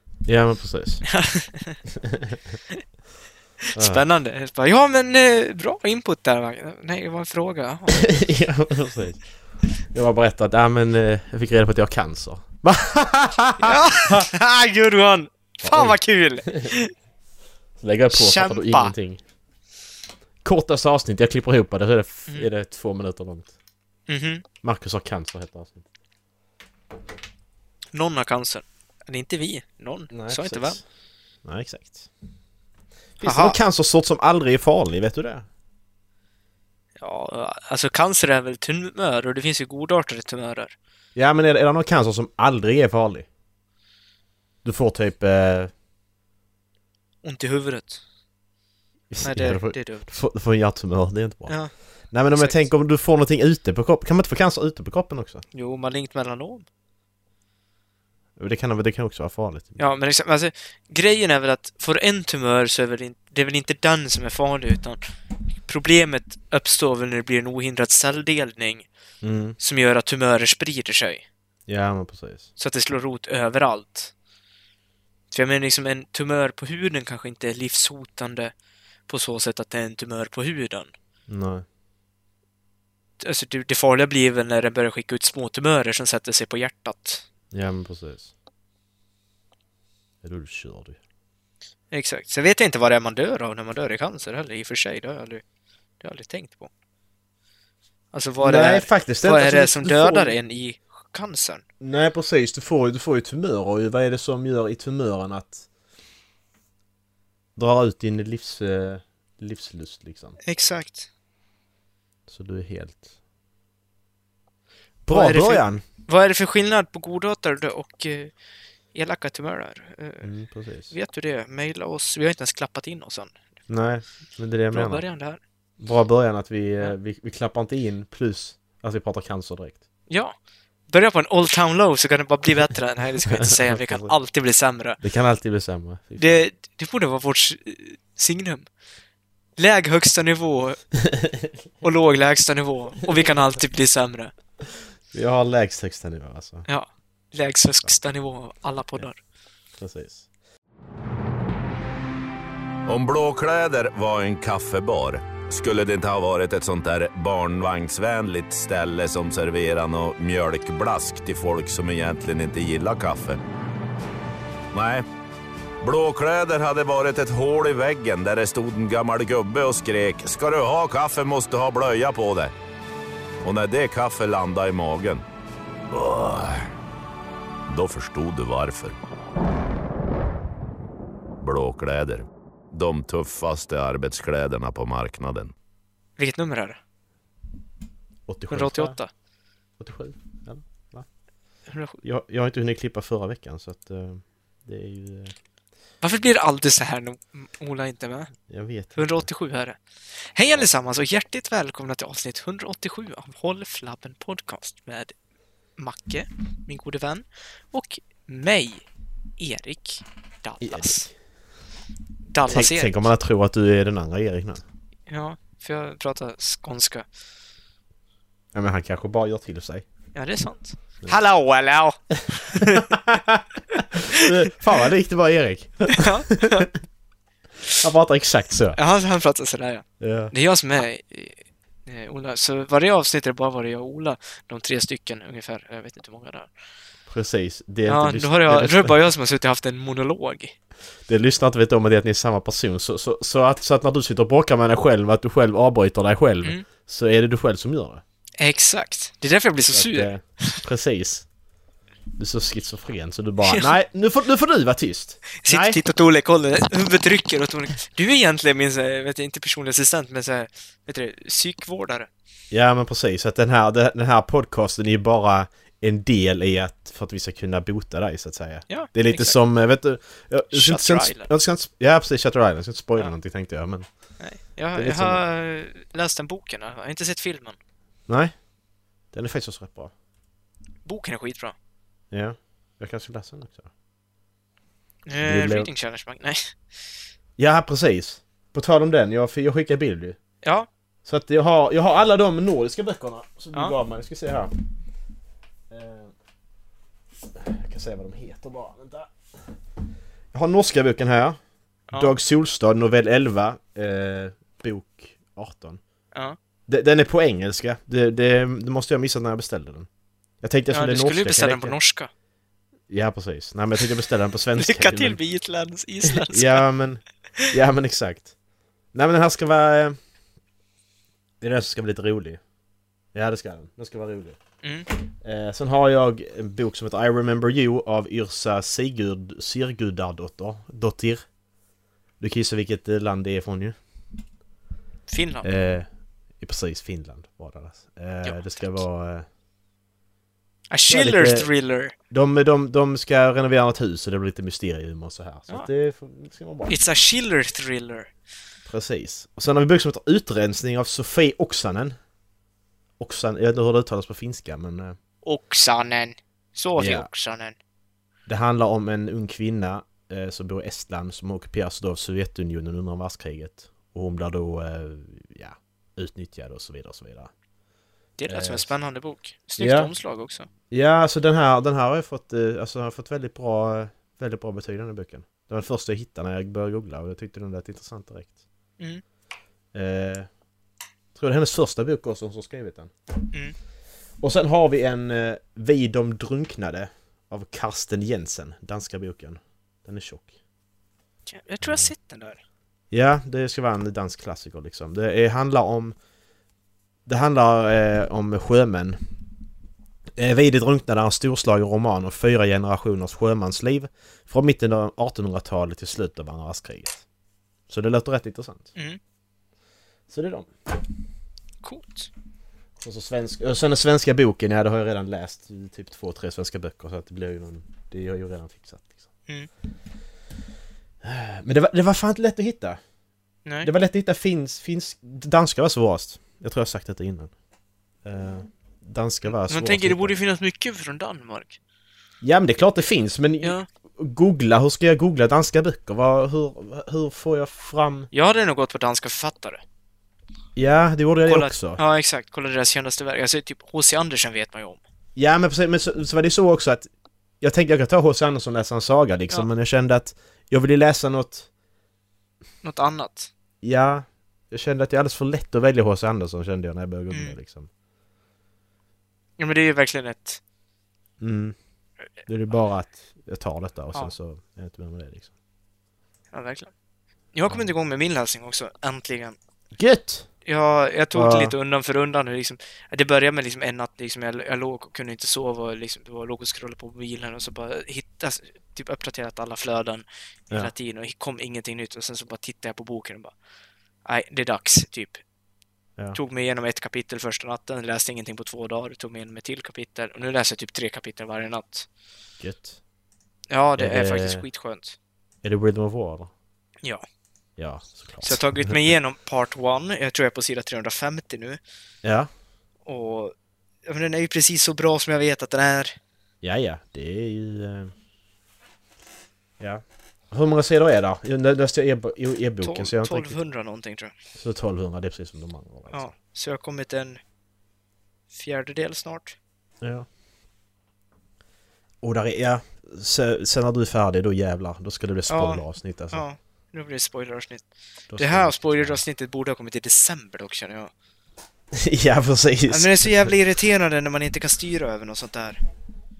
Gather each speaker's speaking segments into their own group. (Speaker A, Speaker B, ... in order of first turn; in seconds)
Speaker A: 0.2-1.1, 2.0-2.4, 3.8-4.0, 7.9-9.2, 9.9-14.3, 15.6-16.7, 17.8-19.2, 20.4-23.5, 24.6-25.9, 30.1-30.8, 31.4-32.1, 33.2-35.5, 41.1-43.3, 44.6-45.7, 49.1-55.4, 58.4-59.8, 69.2-69.6, 71.7-72.5, 81.3-81.7, 87.5-88.3, 90.2-91.0, 98.4-100.4, 101.8-105.7, 107.6-110.4, 112.3-113.1, 115.0-115.8, 120.2-120.9, 123.7-125.0, 125.8-129.8, 133.3-134.1, 135.0-136.4, 141.1-141.5, 143.0-143.6, 145.1-146.7, 149.8-150.3, 188.3-189.0, 189.8-191.1, 192.0-195.3, 198.5-199.3, 210.6-211.1, 212.5-214.6, 218.5-219.8, 222.6-226.8, 227.8-228.8, 230.0-230.3, 237.1-238.9, 241.1-248.0, 249.7-251.3, 252.2-255.8, 262.5-273.9, 274.8-275.2, 278.1-278.3, 279.1-279.9, 282.1-283.7, 285.2-285.7, 287.4-290.2, 291.1-294.5, 295.7-296.1, 297.4-299.1, 300.3-301.4, 302.0-305.8, 306.7-309.9, 310.4-311.8, 312.9-315.2, 316.0-318.3, 318.9-320.0, 321.4-322.4, 323.1-324.4, 325.1-331.2, 332.2-333.8, 335.4-335.9, 336.4-339.3, 340.9-341.5, 342.1-346.8, 348.7-352.0, 353.0-355.0, 356.8-357.1, 358.3-367.3, 368.3-368.7, 369.6-369.9, 370.7-378.4, 379.7-380.3, 381.1-382.9, 384.2-390.3, 391.6-391.9, 392.9-396.0, 397.1-399.0, 400.2-407.1, 407.7-408.7, 410.1-410.5, 412.8-418.9, 421.0-422.8, 423.6-427.3, 428.0-430.1, 432.2-438.1, 440.6-441.8, 445.2-446.9, 447.4-451.5, 453.6-457.7, 461.2-461.6, 462.3-465.3, 469.8-470.3, 471.1-471.6, 492.4-492.8, 493.8-494.4, 495.4-496.3, 497.6-498.9, 502.0-502.3, 506.4-507.9, 509.6-513.4, 514.4-516.1, 519.8-520.1, 522.0-526.2, 528.1-529.0, 531.7-533.4
Speaker B: 1.1-1.8, 3.7-8.0, 13.6-16.9, 18.1-18.9, 24.1-24.4, 27.9-30.8, 33.2-33.6, 37.0-40.8, 47.2-48.0, 49.2-50.1, 51.5-51.7, 52.3-52.7, 55.5-56.7, 59.8-65.0, 65.7-68.9, 69.6-71.2, 72.6-74.1, 75.3-78.5, 79.1-80.9, 83.2-87.2, 91.9-95.4, 96.0-96.7, 98.1-101.6, 110.4-111.1, 115.1-118.3, 118.9-120.3, 120.9-123.3, 124.7-125.4, 130.1-130.4, 130.9-135.0, 136.2-138.7, 139.6-140.8, 141.8-144.3, 146.7-149.2, 186.2-186.8, 188.5-189.1, 191.7-192.0, 196.0-198.3, 199.0-205.2, 205.8-208.8, 209.4-211.1, 212.3-213.1, 215.1-217.1, 220.2-222.9, 223.7-224.3, 225.9-226.7, 228.8-236.5, 237.9-240.6, 248.4-250.6, 253.4-253.7, 255.3-262.1, 268.7-269.4, 270.5-271.3, 274.2-277.6, 280.9-281.6, 285.1-286.6, 290.4-290.7, 310.7-312.1, 314.6-316.7, 324.6-324.9, 335.1-335.5, 338.2-338.7, 340.7-341.9, 346.7-348.1, 355.2-357.6, 368.2-370.5, 391.3-392.4, 411.6-412.1, 423.4-423.7, 429.3-431.6, 433.4-433.7, 438.1-439.6, 441.3-444.8, 452.6-453.3, 457.1-457.4, 459.4-460.4, 466.3-466.7, 467.3-469.4, 470.4-483.3, 484.1-485.2, 486.1-491.9, 493.5-495.0, 498.2-501.6, 502.9-503.3, 503.9-506.0, 512.6-514.1, 515.9-517.2, 518.3-519.4, 525.3-530.9, 532.7-535.6
Speaker C: 152.9-163.4, 164.7-165.1, 165.8-172.5, 173.4-175.2, 175.9-176.7, 177.7-179.0, 181.4-185.5